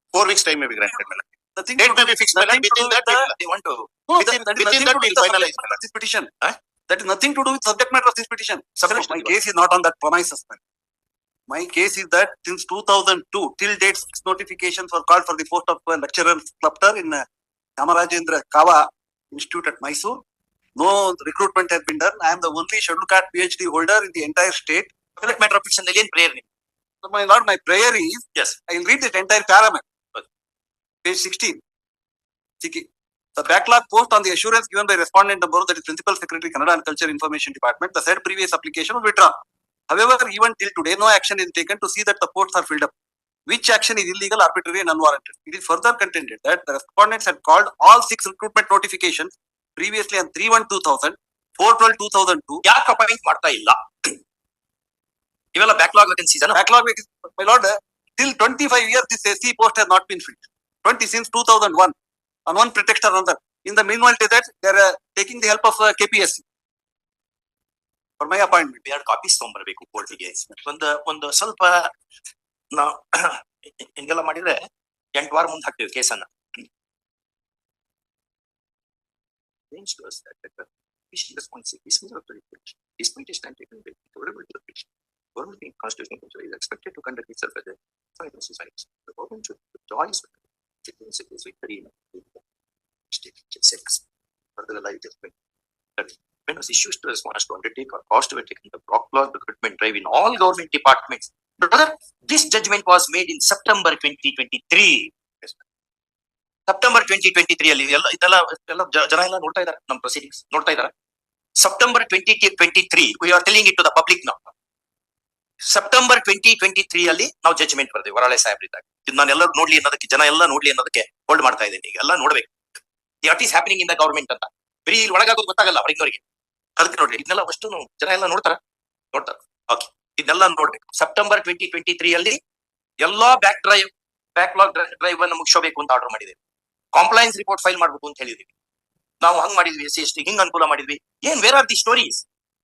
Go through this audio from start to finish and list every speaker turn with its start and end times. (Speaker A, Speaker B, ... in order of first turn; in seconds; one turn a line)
Speaker A: 0.1-1.2
Speaker B: 1.6-3.3
Speaker A: 1.8-3.3
Speaker C: 3.1-4.7
Speaker B: 4.1-6.3
Speaker A: 4.2-5.8
Speaker B: 6.9-10.6
Speaker C: 8.8-9.3
Speaker B: 11.5-17.2
Speaker B: 17.8-20.2
Speaker B: 20.8-24.9
Speaker C: 25.2-26.4
Speaker B: 27.0-29.8
Speaker B: 31.0-31.6
Speaker B: 32.6-32.9
Speaker B: 33.4-39.3
Speaker B: 39.9-42.9
Speaker B: 43.5-52.6
Speaker C: 52.6-54.2
Speaker C: 55.5-56.6
Speaker B: 56.5-61.9
Speaker B: 62.5-66.4
Speaker B: 68.2-68.8
Speaker C: 68.8-71.9
Speaker B: 70.1-70.5
Speaker C: 72.7-76.6
Speaker C: 79.7-92.4
Speaker C: 93.1-94.0
Speaker C: 94.6-95.3
Speaker C: 96.0-105.6
Speaker C: 106.7-110.9
Speaker C: 111.6-114.5
Speaker C: 115.6-122.5
Speaker C: 123.2-126.2
Speaker C: 126.8-128.6
Speaker C: 129.1-132.4
Speaker C: 133.0-136.4
Speaker C: 136.9-138.5
Speaker C: 139.2-142.2